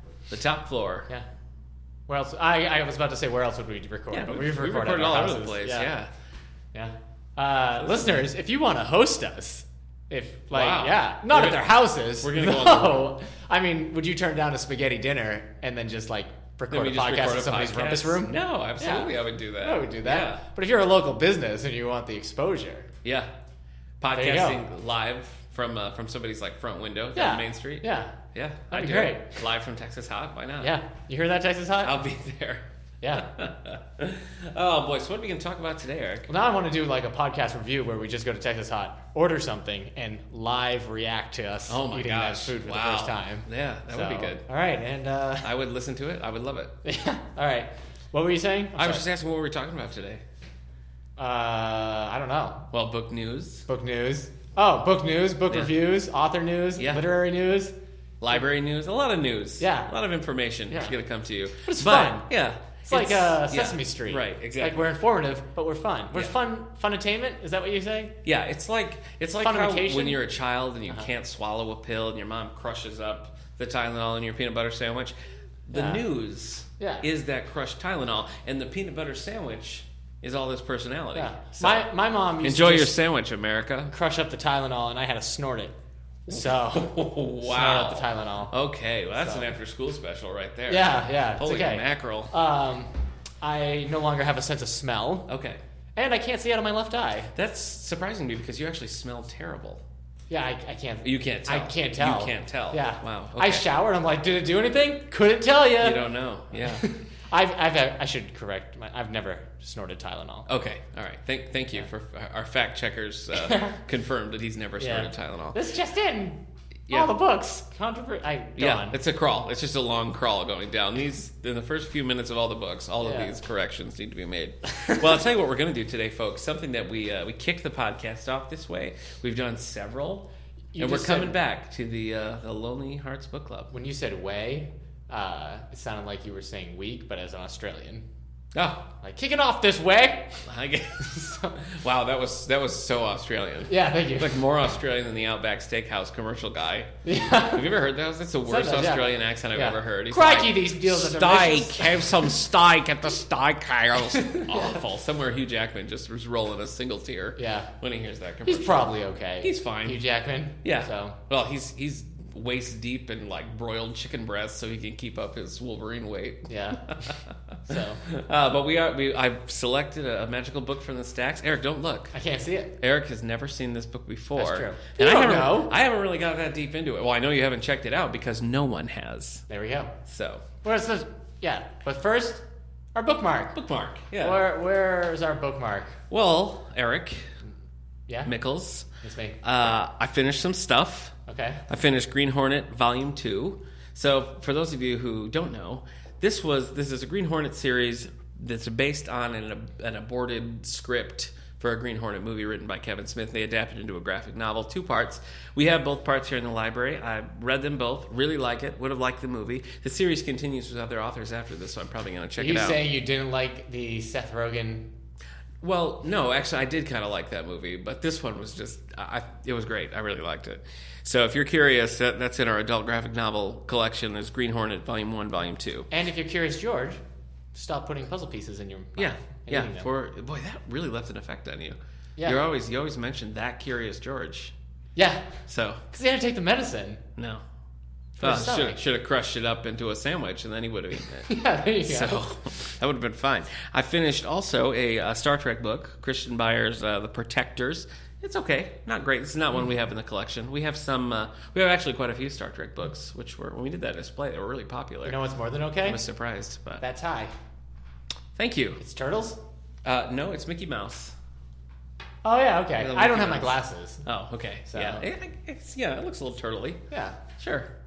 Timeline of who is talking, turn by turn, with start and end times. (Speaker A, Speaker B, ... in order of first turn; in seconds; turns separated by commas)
Speaker A: 0.3-1.1, Speaker B: 2.1-5.9, Speaker A: 4.1-6.1, Speaker B: 6.7-22.9, Speaker A: 7.7-8.3, Speaker A: 10.5-13.1, Speaker A: 16.7-20.4, Speaker A: 23.0-23.3, Speaker A: 24.0-30.7, Speaker B: 24.1-24.6, Speaker B: 27.1-28.2, Speaker B: 28.7-29.4, Speaker B: 30.6-32.0, Speaker A: 31.8-36.3, Speaker B: 33.0-33.3, Speaker B: 36.3-45.5, Speaker A: 41.7-44.4, Speaker A: 45.4-46.7, Speaker B: 46.8-49.0, Speaker A: 48.8-50.2, Speaker B: 51.2-52.7, Speaker A: 52.7-53.6, Speaker B: 53.7-57.7, Speaker A: 56.8-57.1, Speaker A: 58.2-64.9, Speaker B: 59.6-59.9, Speaker B: 60.7-61.0, Speaker B: 61.6-62.3, Speaker B: 62.8-68.1, Speaker A: 68.2-75.1, Speaker B: 69.4-70.2, Speaker A: 75.7-81.9, Speaker B: 75.7-76.0, Speaker B: 76.8-77.1, Speaker B: 81.1-82.9, Speaker A: 82.4-83.9, Speaker B: 83.9-85.7, Speaker B: 86.3-88.5, Speaker A: 86.3-92.3, Speaker B: 89.2-89.5, Speaker B: 90.7-95.3, Speaker A: 95.3-95.6, Speaker B: 96.0-97.3, Speaker A: 97.3-99.8, Speaker B: 100.3-106.0, Speaker A: 101.0-103.6, Speaker A: 105.8-106.9, Speaker B: 106.6-110.5, Speaker A: 110.5-115.6, Speaker B: 113.3-113.8, Speaker B: 114.8-119.0, Speaker A: 116.9-117.1, Speaker A: 118.6-133.7, Speaker B: 123.0-123.3, Speaker B: 130.7-131.3, Speaker B: 133.7-138.0, Speaker A: 138.5-138.8, Speaker B: 139.0-140.4, Speaker A: 140.4-160.0, Speaker B: 141.0-141.6, Speaker B: 143.7-144.4, Speaker B: 147.0-147.7, Speaker B: 148.4-152.3, Speaker B: 154.2-154.8, Speaker B: 157.4-157.7, Speaker B: 158.4-161.2, Speaker A: 160.6-172.1, Speaker B: 166.5-167.2, Speaker B: 167.7-168.0, Speaker B: 172.1-172.7, Speaker A: 172.8-179.4, Speaker B: 174.3-175.7, Speaker B: 179.5-179.9, Speaker A: 180.0-180.4, Speaker B: 180.6-182.4, Speaker B: 182.9-183.6, Speaker A: 183.5-184.4, Speaker B: 184.2-186.0, Speaker A: 186.1-187.3, Speaker A: 188.2-188.9, Speaker B: 189.0-189.4, Speaker A: 189.4-191.1, Speaker B: 191.3-191.6, Speaker A: 191.7-212.8, Speaker B: 212.3-214.9, Speaker A: 215.6-225.9, Speaker B: 225.9-227.0, Speaker B: 227.5-229.9, Speaker A: 229.0-234.5, Speaker B: 234.9-235.4, Speaker A: 235.5-235.8, Speaker B: 235.9-237.0, Speaker A: 237.2-237.4, Speaker B: 238.2-238.8, Speaker A: 238.2-255.2, Speaker B: 241.3-242.2, Speaker B: 255.0-256.0, Speaker A: 255.8-256.8, Speaker B: 256.8-257.3, Speaker A: 258.4-258.8, Speaker B: 258.8-259.4, Speaker A: 259.8-261.1, Speaker B: 262.2-264.0, Speaker A: 262.8-266.8, Speaker B: 264.7-265.1, Speaker B: 266.9-267.2, Speaker A: 267.4-267.7